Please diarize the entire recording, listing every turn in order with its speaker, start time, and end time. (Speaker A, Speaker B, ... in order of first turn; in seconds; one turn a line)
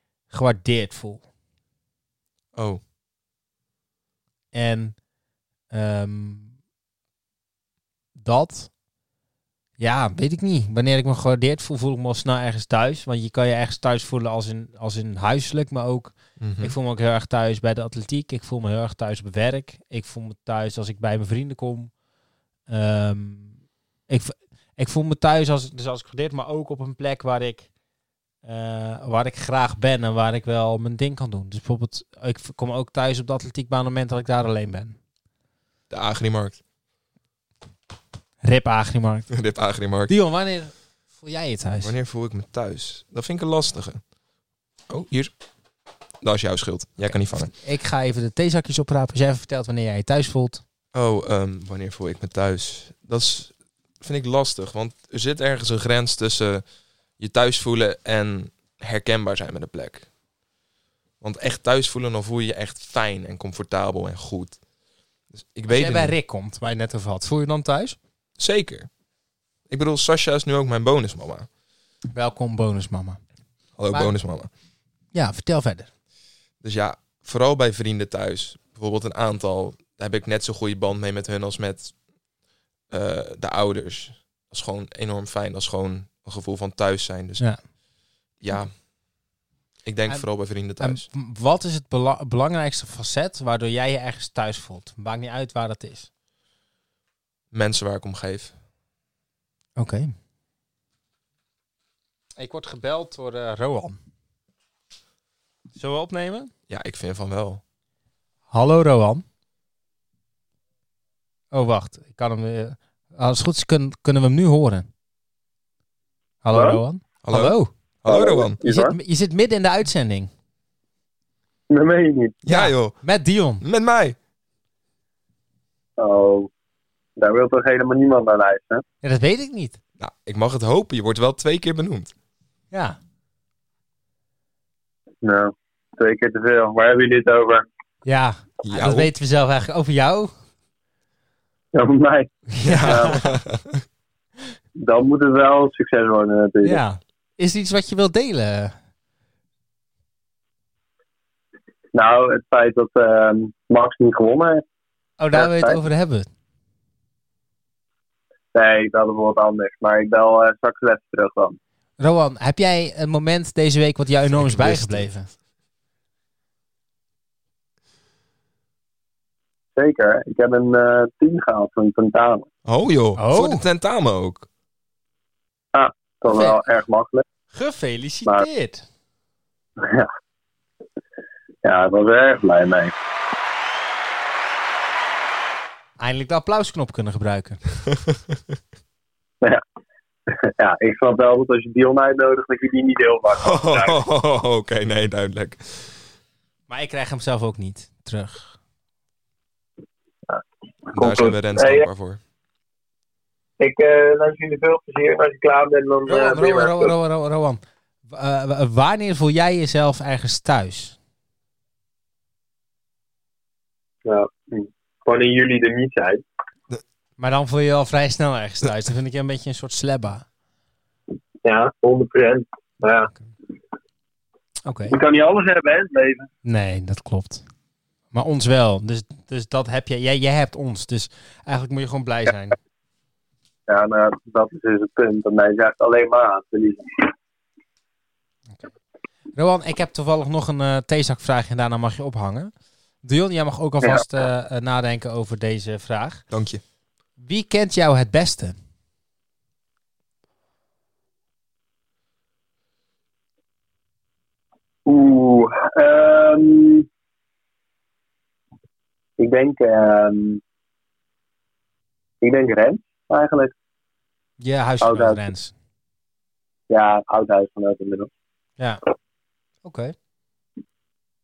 Speaker A: 0.3-1.2
Speaker B: 2.5-2.8
Speaker A: 4.5-5.0
Speaker A: 5.7-6.5
Speaker A: 8.2-8.7
Speaker A: 9.8-21.9
Speaker B: 16.4-16.8
Speaker A: 22.7-23.5
Speaker A: 24.1-27.7
Speaker A: 28.4-35.0
Speaker B: 35.9-36.6
Speaker A: 38.4-39.3
Speaker B: 39.3-40.1
Speaker A: 40.1-41.9
Speaker B: 41.8-44.0
Speaker B: 44.9-45.3
Speaker B: 46.2-47.5
Speaker A: 47.3-50.6
Speaker B: 50.9-56.6
Speaker B: 57.2-60.1
Speaker B: 61.2-64.6
Speaker B: 65.3-66.2
Speaker A: 65.7-68.0
Speaker B: 68.4-68.9
Speaker B: 69.7-71.5
Speaker A: 72.1-73.2
Speaker B: 73.8-74.5
Speaker A: 75.1-75.9
Speaker B: 76.6-81.9
Speaker B: 82.9-87.4
Speaker B: 88.4-88.7
Speaker B: 89.8-91.1
Speaker A: 90.8-96.1
Speaker B: 97.5-98.5
Speaker A: 99.8-100.1
Speaker A: 102.4-104.0
Speaker A: 105.8-106.5
Speaker B: 106.7-107.6
Speaker A: 108.5-109.2
Speaker A: 111.5-114.9
Speaker A: 116.4-117.7
Speaker C: 116.5-116.8
Speaker B: 117.2-118.6
Speaker C: 118.1-119.0
Speaker A: 118.6-120.3
Speaker C: 121.7-122.4
Speaker B: 122.4-123.0
Speaker A: 122.5-123.6
Speaker B: 123.6-124.2
Speaker C: 126.0-126.5
Speaker C: 127.2-128.8
Speaker A: 129.0-129.8
Speaker B: 130.0-132.1
Speaker A: 132.7-133.0
Speaker C: 135.2-137.7
Speaker A: 138.1-140.3
Speaker B: 138.6-139.1
Speaker C: 141.7-143.2
Speaker A: 142.5-143.2
Speaker B: 142.6-143.8
Speaker C: 144.8-146.8
Speaker A: 146.6-148.8
Speaker C: 151.9-154.6
Speaker A: 155.2-156.3
Speaker C: 155.3-155.8
Speaker C: 158.5-161.6
Speaker A: 162.0-165.3
Speaker B: 164.4-165.1
Speaker C: 169.8-172.5
Speaker B: 172.7-174.5
Speaker A: 173.2-173.6
Speaker C: 175.7-177.2
Speaker A: 176.3-176.6
Speaker A: 177.5-178.8
Speaker C: 179.8-180.1
Speaker C: 181.6-182.9
Speaker A: 186.0-187.6
Speaker C: 190.3-194.0
Speaker B: 193.3-195.9
Speaker A: 196.7-198.5
Speaker C: 200.3-201.9
Speaker B: 200.9-202.2
Speaker C: 203.6-206.9
Speaker A: 206.1-211.0
Speaker C: 214.1-216.2
Speaker A: 217.2-220.3
Speaker C: 221.4-223.1
Speaker A: 224.7-225.0
Speaker C: 224.9-226.3
Speaker A: 226.4-227.4
Speaker A: 228.1-232.6
Speaker C: 233.7-237.1
Speaker A: 239.3-242.5
Speaker A: 243.0-246.2
Speaker B: 246.3-246.6
Speaker A: 247.2-248.6
Speaker C: 254.9-256.9
Speaker C: 259.2-260.4
Speaker C: 262.2-263.5
Speaker A: 264.4-265.5
Speaker C: 264.8-265.2
Speaker C: 266.7-268.1
Speaker A: 269.6-269.9